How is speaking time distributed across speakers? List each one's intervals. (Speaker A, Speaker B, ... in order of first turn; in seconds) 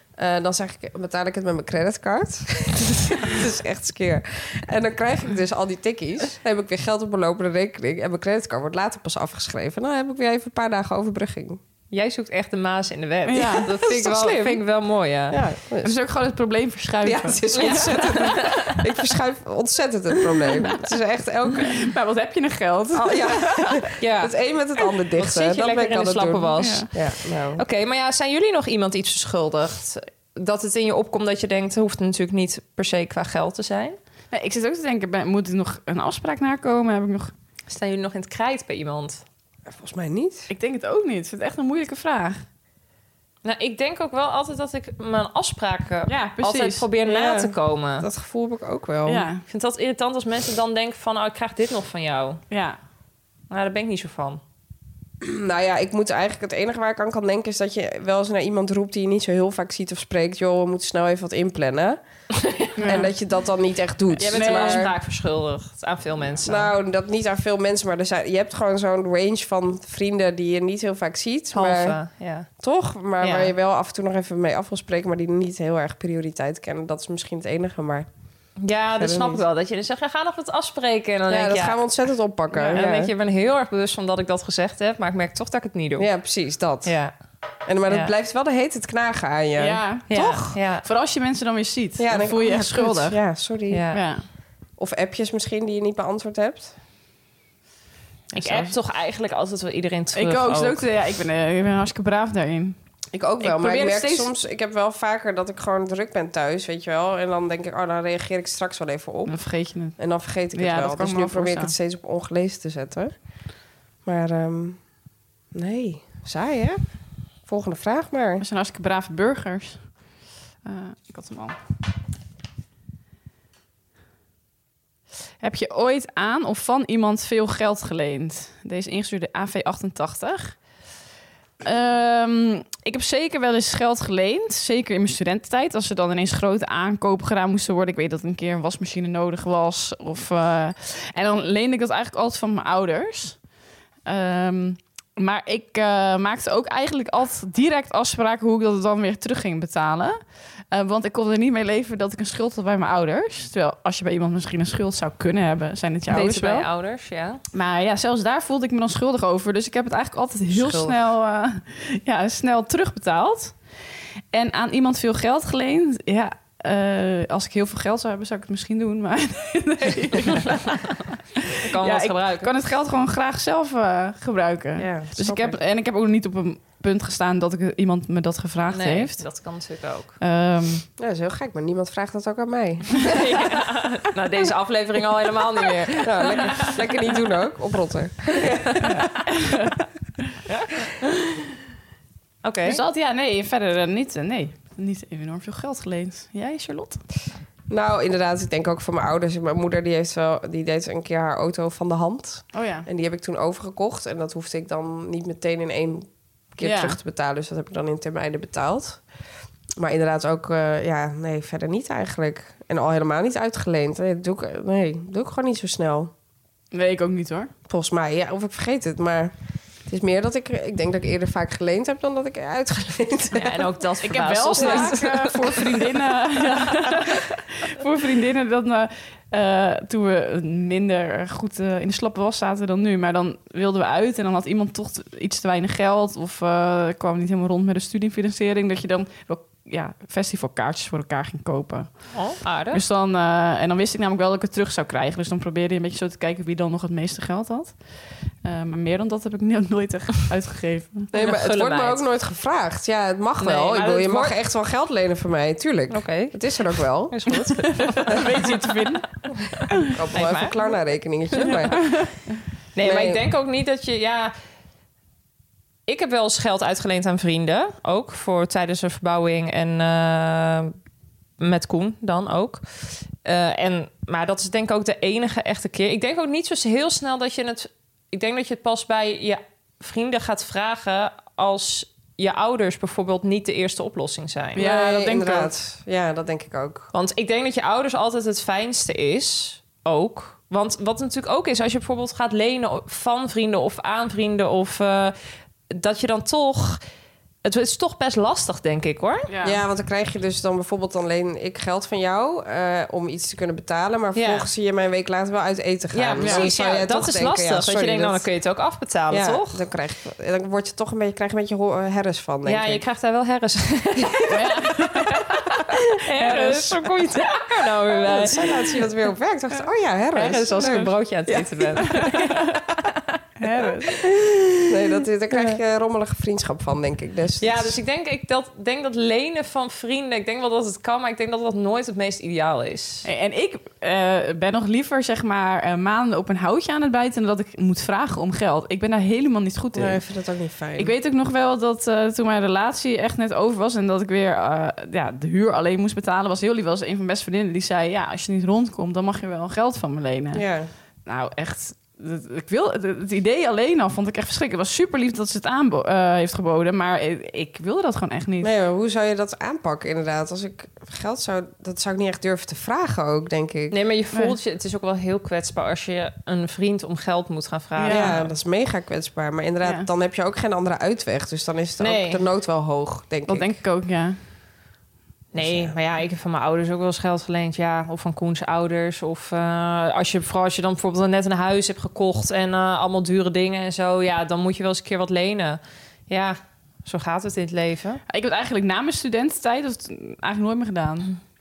Speaker A: 0.2-11.6, 13.4-14.6, 15.3-15.9, 17.0-21.9, 22.9-27.6, 39.7-40.5, 47.0-49.3, 55.2-62.0, 62.8-64.9, 66.4-72.0, 72.6-78.1, 79.0-79.4, 81.3-83.1, 86.0-87.0, 87.7-90.5, 92.0-93.8, 94.8-96.7, 103.1-109.4, 110.0-113.1, 114.0-114.8, 115.5-116.8, 117.5-118.4, 174.8-175.6, 181.0-183.1, 186.0-188.9, 197.7-209.0, 209.8-216.1, 217.7-219.3, 219.9-223.7, 224.6-225.0, 251.1-257.2, 259.8-261.9, 262.8-263.2, 284.6-286.9, 299.4-308.2, 309.1-312.8, 317.9-320.9, 324.7-327.8, 339.7-340.9, 350.3-350.7, 358.4-363.8, 367.9-373.5, 375.3-375.7
Speaker B: 11.9-15.4, 17.5-18.7, 24.0-24.3, 25.1-34.0, 37.7-39.2, 43.4-48.1, 49.5-52.4, 53.5-54.4, 62.4-62.7, 64.2-66.7, 71.5-72.5, 73.2-73.5, 78.6-81.8, 82.7-86.1, 86.8-87.1, 90.1-90.8, 93.7-94.0, 98.3-100.8, 156.1-157.4, 160.5-161.0, 170.2-171.0, 171.6-172.5, 178.7-180.2, 183.0-186.7, 190.5-190.9, 192.4-192.8, 223.3-225.3, 242.1-242.8, 251.1-252.0, 253.4-254.4, 255.9-256.4, 257.1-258.6, 260.1-260.6, 261.4-261.8, 262.7-264.3, 265.9-270.7, 271.4-284.6, 286.9-295.1, 295.7-296.8, 297.4-299.3, 304.1-304.5, 305.9-309.6, 312.4-315.2, 316.0-318.8, 320.1-323.0, 327.4-333.1, 363.7-368.3, 371.8-372.2, 375.3-388.0
Speaker C: 13.3-13.7, 15.8-18.2, 21.6-23.8, 26.6-26.9, 34.3-37.3, 40.5-42.4, 46.1-46.8, 49.1-49.4, 52.5-52.8, 62.8-63.1, 64.2-64.8, 82.5-82.8, 89.6-90.1, 90.8-93.2, 93.9-94.2, 98.3-98.7, 100.1-102.8, 103.4-104.3, 109.3-110.0, 110.5-111.7, 118.4-119.9, 120.6-121.5, 125.4-130.6, 131.6-143.4, 144.1-150.2, 150.7-156.7, 157.5-163.5, 164.3-170.8, 171.8-179.2, 180.2-180.8, 188.9-189.8, 192.6-197.0, 202.5-202.9, 206.6-207.0, 216.7-217.5, 224.0-242.1, 242.7-247.8, 248.4-251.1, 257.7-259.0, 284.6-285.5, 299.3-299.6, 306.2-306.5, 314.3-315.6, 316.2-316.7, 321.8-322.4, 323.4-324.4, 333.0-340.0, 340.8-350.4, 351.1-358.5, 367.8-368.2, 373.3-374.2, 388.1-391.1